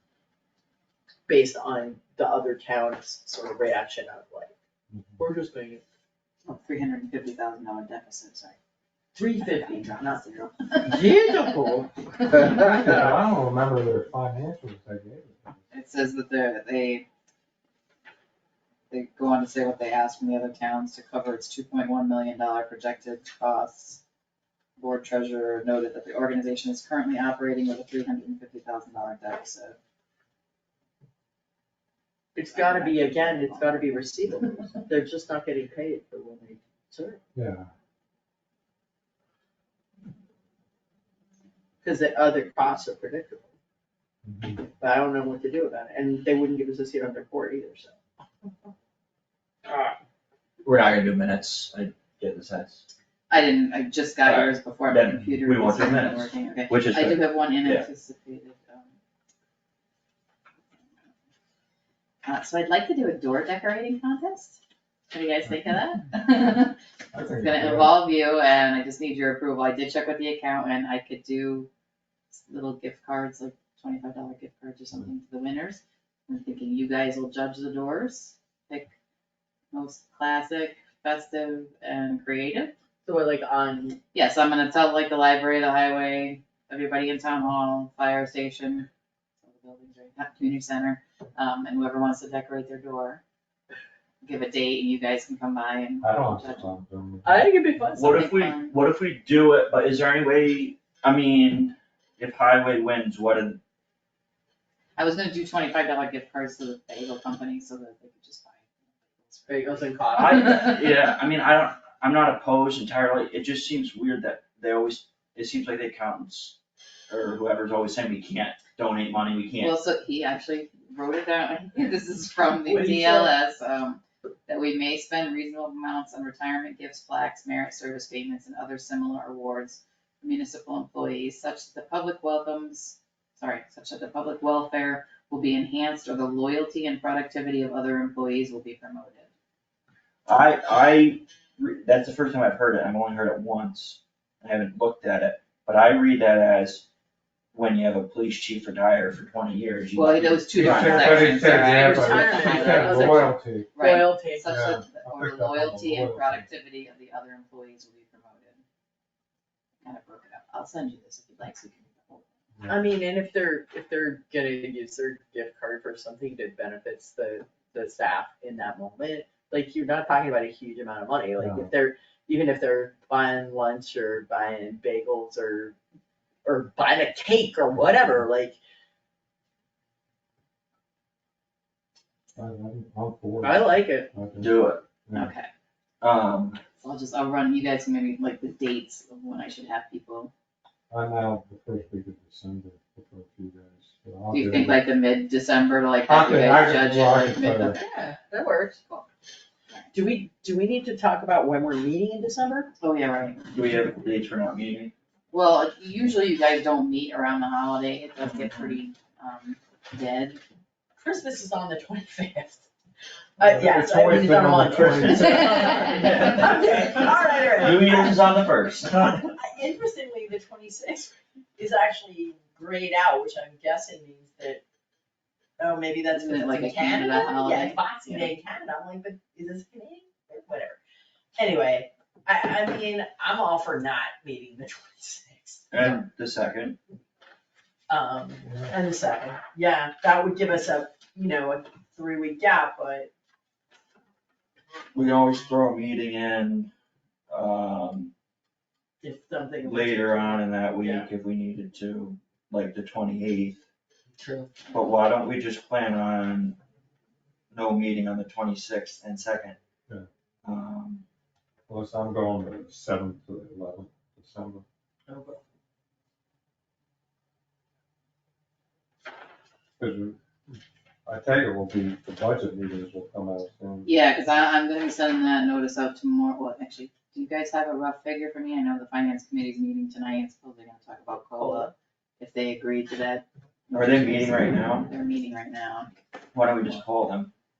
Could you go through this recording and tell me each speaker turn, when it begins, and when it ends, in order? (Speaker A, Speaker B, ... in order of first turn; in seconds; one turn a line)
Speaker A: 1.3-4.5
Speaker B: 4.9-5.2
Speaker A: 5.2-5.8
Speaker C: 6.5-8.6
Speaker A: 9.2-10.2
Speaker C: 9.4-11.2
Speaker A: 10.8-11.9
Speaker B: 12.3-15.6
Speaker C: 15.7-17.1
Speaker C: 18.9-24.0
Speaker C: 24.8-29.8
Speaker A: 32.4-37.2
Speaker C: 32.5-34.0
Speaker B: 37.3-37.7
Speaker A: 41.8-43.5
Speaker B: 44.2-44.6
Speaker A: 44.7-48.0
Speaker D: 49.7-49.9
Speaker D: 50.6-52.8
Speaker C: 53.3-58.9
Speaker D: 54.2-57.9
Speaker C: 62.2-64.6
Speaker C: 65.1-66.8
Speaker B: 67.1-68.0
Speaker C: 67.4-71.7
Speaker C: 72.3-78.9
Speaker C: 79.7-82.7
Speaker A: 83.0-84.0
Speaker C: 84.1-88.9
Speaker C: 89.4-93.2
Speaker C: 94.2-96.7
Speaker B: 96.0-97.7
Speaker A: 97.2-98.4
Speaker D: 98.0-103.6
Speaker C: 98.0-98.7
Speaker C: 105.0-110.8
Speaker A: 109.5-110.6
Speaker D: 110.2-116.6
Speaker D: 117.1-119.8
Speaker C: 119.6-139.3
Speaker D: 122.6-123.3
Speaker D: 140.3-146.9
Speaker D: 147.5-151.5
Speaker C: 149.9-158.6
Speaker B: 150.5-153.7
Speaker A: 151.5-154.5
Speaker B: 154.4-156.5
Speaker C: 159.8-162.3
Speaker B: 162.6-162.9
Speaker A: 162.7-175.8
Speaker B: 171.4-171.7
Speaker A: 176.4-178.6
Speaker B: 182.4-184.5
Speaker A: 183.4-184.1
Speaker D: 184.4-184.8
Speaker B: 185.1-185.3
Speaker C: 185.1-185.5
Speaker D: 186.0-186.6
Speaker C: 186.8-190.3
Speaker B: 190.9-194.8
Speaker C: 194.3-197.8
Speaker B: 196.1-197.8
Speaker A: 197.7-198.8
Speaker A: 199.9-202.7
Speaker C: 202.8-203.5
Speaker D: 203.5-204.9
Speaker C: 205.3-210.4
Speaker A: 211.0-212.7
Speaker A: 213.4-218.2
Speaker B: 213.4-215.5
Speaker D: 214.7-219.3
Speaker A: 219.3-224.6
Speaker A: 225.6-230.8
Speaker C: 226.1-228.3
Speaker A: 231.4-235.9
Speaker D: 235.7-236.8
Speaker A: 237.9-243.1
Speaker B: 238.5-238.7
Speaker D: 244.9-246.7
Speaker D: 247.3-248.1
Speaker A: 249.0-251.1
Speaker D: 249.6-253.6
Speaker A: 254.2-254.5
Speaker D: 254.7-256.6
Speaker D: 257.5-259.6
Speaker D: 260.4-261.0
Speaker B: 261.7-264.6
Speaker B: 269.8-273.9
Speaker C: 273.9-285.9
Speaker A: 281.4-281.7
Speaker D: 283.7-284.9
Speaker D: 286.3-287.3